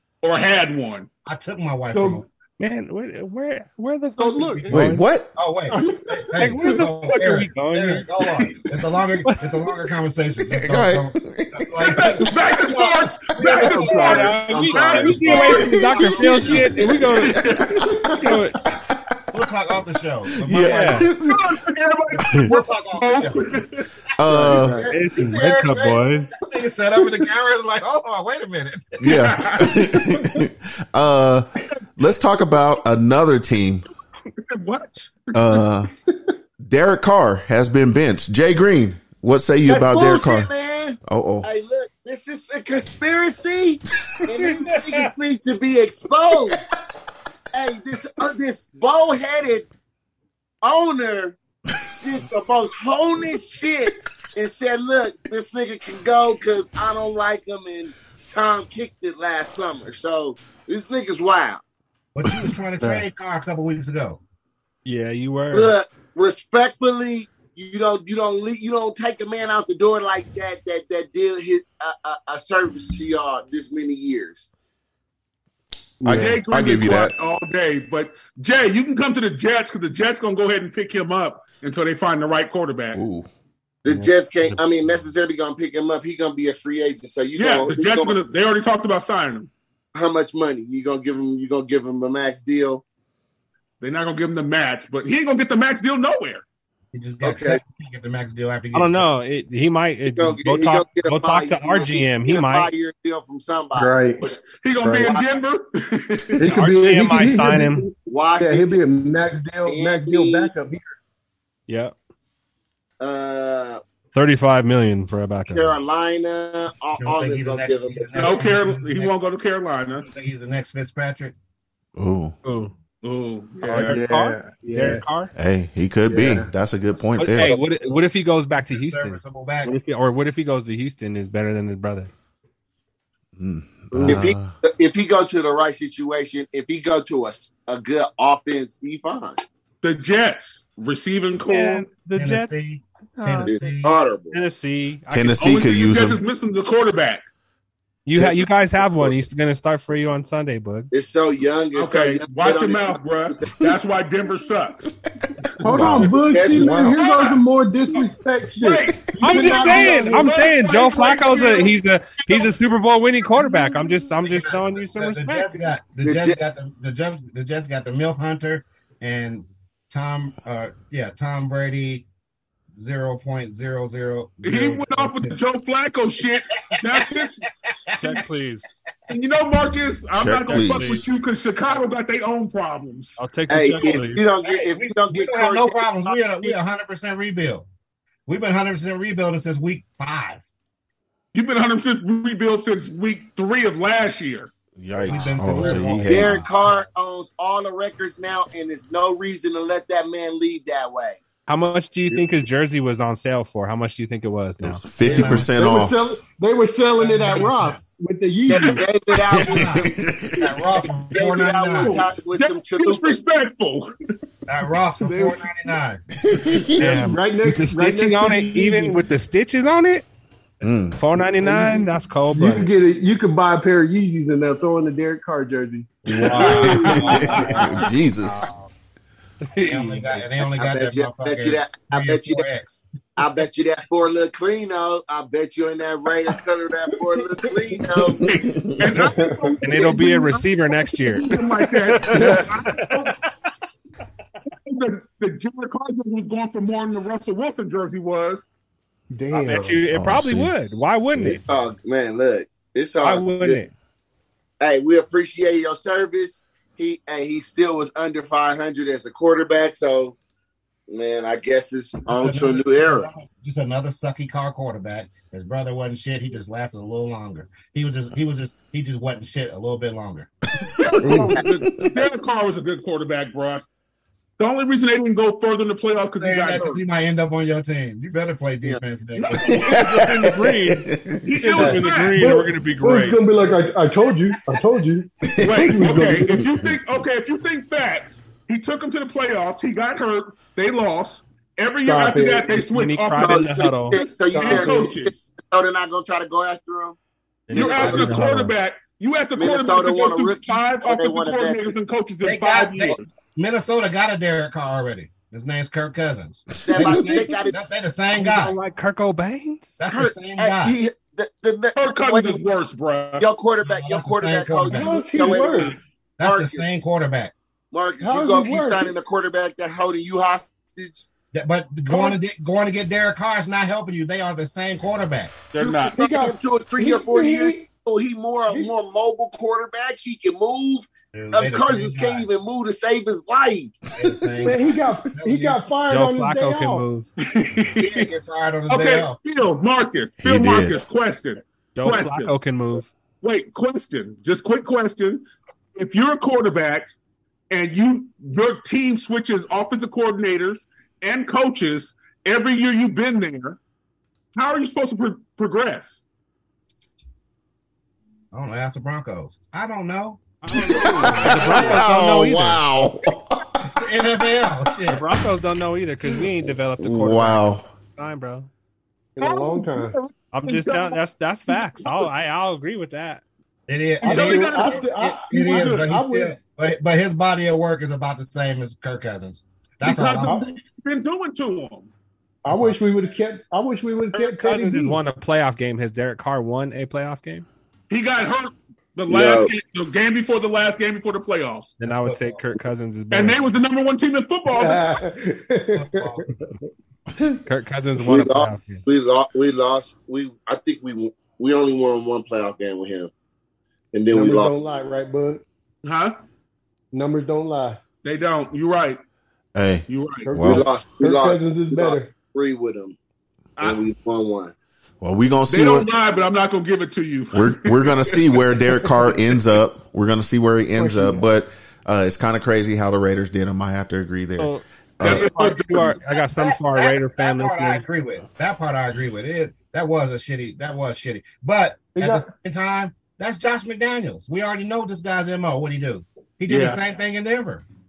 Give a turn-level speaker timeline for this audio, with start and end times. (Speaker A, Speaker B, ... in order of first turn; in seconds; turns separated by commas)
Speaker A: 0.2-1.1, Speaker B: 1.2-2.2, Speaker C: 1.9-2.2, Speaker D: 2.6-5.0, Speaker C: 4.2-4.7, Speaker E: 4.7-5.3, Speaker B: 5.3-14.8, Speaker C: 5.7-6.1, Speaker D: 6.4-8.1, Speaker D: 9.2-9.6, Speaker E: 10.5-12.3, Speaker A: 11.8-16.5, Speaker C: 13.4-15.3, Speaker D: 14.0-17.4, Speaker E: 15.2-19.4, Speaker B: 15.3-16.9, Speaker A: 17.0-17.9, Speaker C: 17.9-18.2, Speaker D: 18.2-18.6, Speaker B: 19.3-21.1, Speaker E: 20.4-21.5, Speaker D: 20.6-21.1, Speaker A: 21.2-23.9, Speaker B: 22.2-23.5, Speaker E: 24.2-24.9, Speaker C: 24.2-24.9, Speaker B: 24.3-29.0, Speaker D: 24.9-26.3, Speaker E: 29.0-33.9, Speaker A: 29.1-29.8, Speaker A: 34.4-35.6, Speaker E: 35.3-35.9, Speaker E: 36.6-40.5, Speaker F: 39.7-46.7, Speaker E: 41.0-41.5, Speaker F: 47.5-49.7, Speaker F: 50.6-51.4, Speaker F: 52.0-61.6, Speaker B: 62.1-64.2, Speaker D: 64.8-65.7, Speaker F: 65.5-74.5, Speaker C: 76.0-76.4, Speaker E: 76.0-77.1, Speaker A: 76.1-83.0, Speaker E: 82.9-83.3, Speaker F: 83.8-88.2, Speaker D: 83.9-84.6, Speaker A: 87.4-89.5, Speaker F: 89.9-92.8, Speaker A: 93.8-96.4, Speaker B: 96.9-99.1, Speaker F: 97.2-97.6, Speaker D: 98.7-102.7, Speaker F: 100.1-104.0, Speaker C: 103.7-104.2, Speaker A: 104.2-106.4, Speaker C: 104.8-105.1, Speaker F: 105.0-105.3, Speaker C: 106.4-110.9, Speaker D: 106.4-107.9, Speaker F: 108.0-108.8, Speaker F: 109.7-110.5, Speaker D: 111.7-111.9, Speaker F: 113.0-113.8, Speaker D: 114.1-115.7, Speaker F: 115.5-118.5, Speaker B: 117.0-119.2, Speaker A: 118.1-120.0, Speaker B: 120.0-121.3, Speaker E: 122.0-122.3, Speaker D: 122.4-122.7, Speaker A: 123.0-124.0, Speaker D: 123.6-125.3, Speaker C: 123.8-125.0, Speaker E: 125.3-127.6, Speaker C: 126.1-126.5, Speaker D: 127.2-132.1, Speaker B: 128.7-129.7, Speaker E: 133.4-134.6, Speaker F: 134.0-139.4, Speaker A: 139.8-141.9, Speaker D: 141.5-143.6, Speaker B: 142.1-143.9, Speaker F: 143.4-144.4, Speaker D: 144.3-145.7, Speaker E: 145.1-146.2, Speaker A: 145.4-147.2, Speaker D: 148.1-150.9, Speaker F: 148.1-149.2, Speaker F: 150.9-153.6, Speaker A: 151.7-154.9, Speaker C: 155.6-160.4, Speaker E: 155.6-156.9, Speaker A: 155.9-157.4, Speaker F: 156.2-156.9, Speaker A: 158.6-161.7, Speaker D: 159.2-165.6, Speaker B: 164.2-172.0, Speaker F: 166.0-166.4, Speaker B: 172.7-175.4, Speaker A: 174.4-177.4, Speaker B: 177.7-178.2, Speaker D: 178.0-178.7, Speaker A: 179.1-183.2, Speaker E: 180.1-181.0, Speaker D: 180.5-181.1, Speaker D: 183.2-184.2, Speaker F: 183.5-186.5, Speaker B: 184.4-187.7, Speaker B: 188.3-190.4, Speaker A: 191.3-194.5, Speaker E: 194.8-196.4, Speaker B: 195.0-196.8, Speaker D: 195.3-195.8, Speaker F: 196.0-201.2, Speaker D: 201.5-204.8, Speaker E: 204.6-206.2, Speaker B: 205.0-205.5, Speaker C: 205.1-208.8, Speaker B: 207.0-207.8, Speaker F: 208.5-209.8, Speaker B: 209.3-212.1, Speaker E: 209.5-210.6, Speaker F: 210.7-213.2, Speaker A: 211.7-213.9, Speaker B: 214.5-216.0, Speaker C: 215.0-215.5, Speaker E: 216.2-216.8, Speaker C: 216.8-219.0, Speaker D: 216.8-220.1, Speaker E: 220.6-221.0, Speaker D: 221.0-222.7, Speaker C: 221.4-227.8, Speaker D: 226.1-228.7, Speaker E: 226.5-228.5, Speaker D: 229.4-230.2, Speaker B: 229.6-232.8, Speaker F: 230.6-232.4, Speaker F: 233.2-238.2, Speaker E: 238.2-239.0, Speaker A: 238.2-240.4, Speaker C: 239.0-239.6, Speaker D: 239.6-242.8, Speaker A: 241.1-242.9, Speaker C: 242.1-242.5, Speaker B: 242.6-243.1, Speaker A: 244.7-248.4, Speaker C: 249.1-249.8, Speaker D: 249.3-251.4, Speaker E: 249.9-251.4, Speaker F: 251.2-253.6, Speaker D: 253.0-253.7, Speaker F: 254.6-260.1, Speaker F: 260.9-263.1, Speaker B: 262.1-270.3, Speaker A: 270.8-273.6, Speaker E: 271.0-271.9, Speaker A: 274.4-276.8, Speaker B: 276.2-279.8, Speaker A: 279.2-279.8, Speaker E: 279.5-281.4, Speaker D: 279.6-283.2, Speaker A: 281.2-282.4, Speaker C: 281.5-286.5, Speaker E: 285.3-286.8, Speaker A: 285.4-293.6, Speaker C: 291.9-292.5, Speaker D: 292.5-294.0, Speaker F: 293.2-297.0, Speaker C: 294.3-294.9, Speaker A: 294.3-295.1, Speaker D: 297.5-298.5, Speaker F: 297.5-298.1, Speaker A: 297.5-303.0, Speaker F: 299.4-301.7, Speaker B: 302.2-308.6, Speaker F: 306.6-307.6, Speaker D: 306.8-307.2, Speaker D: 308.1-309.8, Speaker B: 309.8-310.8, Speaker F: 309.8-312.4, Speaker A: 311.8-313.3, Speaker F: 313.2-316.6, Speaker B: 313.6-317.3, Speaker C: 314.7-315.8, Speaker F: 317.7-321.1, Speaker C: 318.0-318.9, Speaker B: 321.3-325.4, Speaker A: 325.5-325.9, Speaker F: 325.6-333.8, Speaker C: 325.9-327.7, Speaker C: 328.5-328.7, Speaker B: 331.1-332.2, Speaker B: 333.9-335.6, Speaker E: 334.0-334.4, Speaker C: 334.4-336.8, Speaker D: 335.9-337.1, Speaker A: 337.2-338.1, Speaker B: 337.8-339.2, Speaker A: 338.7-342.3, Speaker E: 340.2-340.8, Speaker D: 341.8-342.9, Speaker A: 343.2-346.9, Speaker A: 347.5-353.6, Speaker A: 354.3-356.0, Speaker B: 358.3-360.3, Speaker D: 360.4-362.6, Speaker E: 360.5-363.7, Speaker B: 360.8-361.8, Speaker B: 363.6-365.0, Speaker D: 364.9-368.5, Speaker E: 366.8-367.7, Speaker C: 369.2-370.0, Speaker A: 369.2-371.0, Speaker D: 370.3-373.2, Speaker B: 373.7-380.4, Speaker C: 374.0-376.4, Speaker A: 374.0-374.8, Speaker A: 375.4-375.9, Speaker A: 379.8-381.9, Speaker C: 380.2-380.5, Speaker C: 382.4-385.0, Speaker D: 384.1-387.4, Speaker A: 387.9-391.8, Speaker F: 389.1-389.5, Speaker D: 391.8-393.4, Speaker B: 391.8-392.4, Speaker A: 393.1-395.0, Speaker C: 394.5-396.6, Speaker B: 395.7-396.3, Speaker D: 397.4-398.8, Speaker F: 398.0-403.1, Speaker F: 403.9-404.5, Speaker C: 404.1-405.4, Speaker A: 405.8-406.2, Speaker C: 406.9-407.8, Speaker A: 408.0-409.0, Speaker E: 409.5-410.6, Speaker A: 409.9-410.3, Speaker C: 410.2-412.1, Speaker F: 410.4-413.0, Speaker F: 413.6-414.5, Speaker E: 415.0-415.9, Speaker A: 415.5-418.4, Speaker E: 417.3-425.3, Speaker C: 420.7-421.2, Speaker D: 424.4-427.8, Speaker A: 425.0-425.9, Speaker B: 425.4-437.6, Speaker C: 431.9-432.3, Speaker A: 436.5-436.8